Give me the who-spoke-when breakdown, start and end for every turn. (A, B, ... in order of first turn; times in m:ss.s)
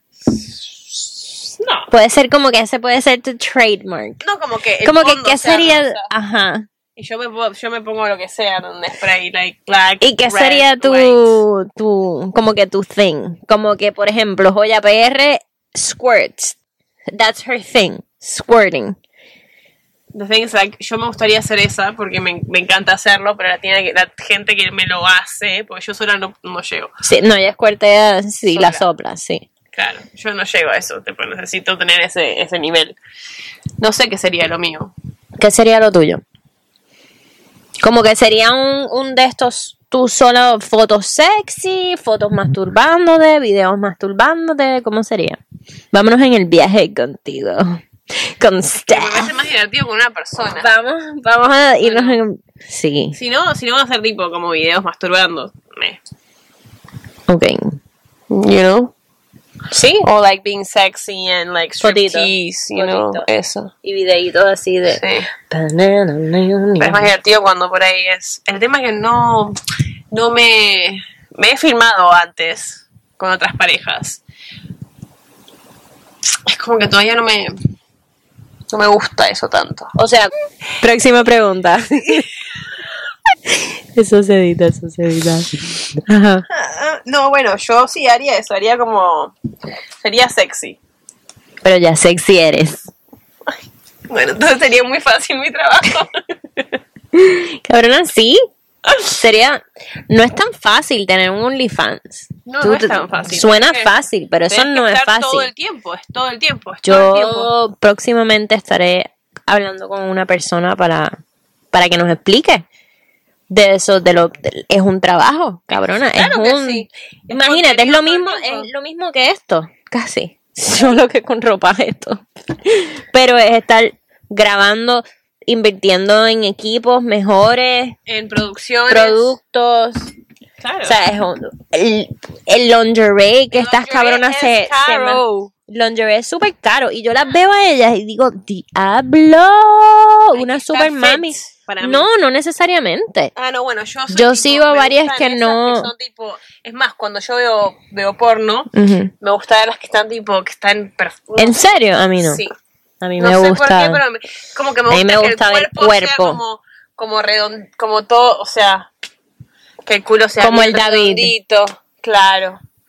0:00.3-0:01.9 A
0:01.9-0:04.2 B
0:04.2-0:06.1 A
0:04.8-0:06.7 B
0:07.0-0:11.4 A
0:10.0-0:16.6 B
0:17.1-0:19.0 B
0:20.1-0:26.9 A
0:27.0-0:29.5 B
0:28.5-0:28.9 A
0:29.7-0:33.0 A
0:33.8-0:34.9 A
0:35.4-0:36.2 B
0:37.8-0:45.4 B
0:45.9-0:49.3 B
0:48.9-0:50.7 A
0:50.5-0:53.2 B
0:51.8-0:52.2 A
0:53.1-0:56.0 A
0:57.3-0:57.8 B
0:58.3-0:58.9 A
0:59.8-1:00.0 B
0:59.8-1:03.7 A
1:01.8-1:03.3 B
1:03.8-1:07.1 B
1:04.9-1:05.3 A
1:06.8-1:09.6 A
1:10.1-1:14.2 A
1:16.5-1:17.5 A
1:18.7-1:19.9 A
1:20.0-1:22.3 B
1:23.5-1:26.5 B
1:26.5-1:29.3 A
1:30.0-1:30.8 A
1:31.6-1:32.9 B
1:34.1-1:36.6 A
1:37.1-1:38.4 B
1:38.9-1:39.1 A
1:39.1-1:45.5 B
1:42.5-1:43.9 A
1:44.5-1:47.5 A
1:46.8-1:51.2 B
1:51.7-1:52.7 B
1:53.5-2:08.0 B
1:55.7-1:58.7 A
2:08.1-2:09.3 A
2:08.9-2:10.1 B
2:10.6-2:11.0 A
2:10.8-2:23.3 B
2:13.5-2:15.5 A
2:20.3-2:22.1 A
2:23.4-2:31.6 A
2:24.1-2:25.9 B
2:28.7-2:29.1 B
2:31.4-2:32.4 B
2:32.2-2:32.5 A
2:33.0-2:34.0 B
2:33.2-2:38.9 A
2:34.9-2:36.4 B
2:39.9-2:42.6 A
2:40.4-2:41.3 B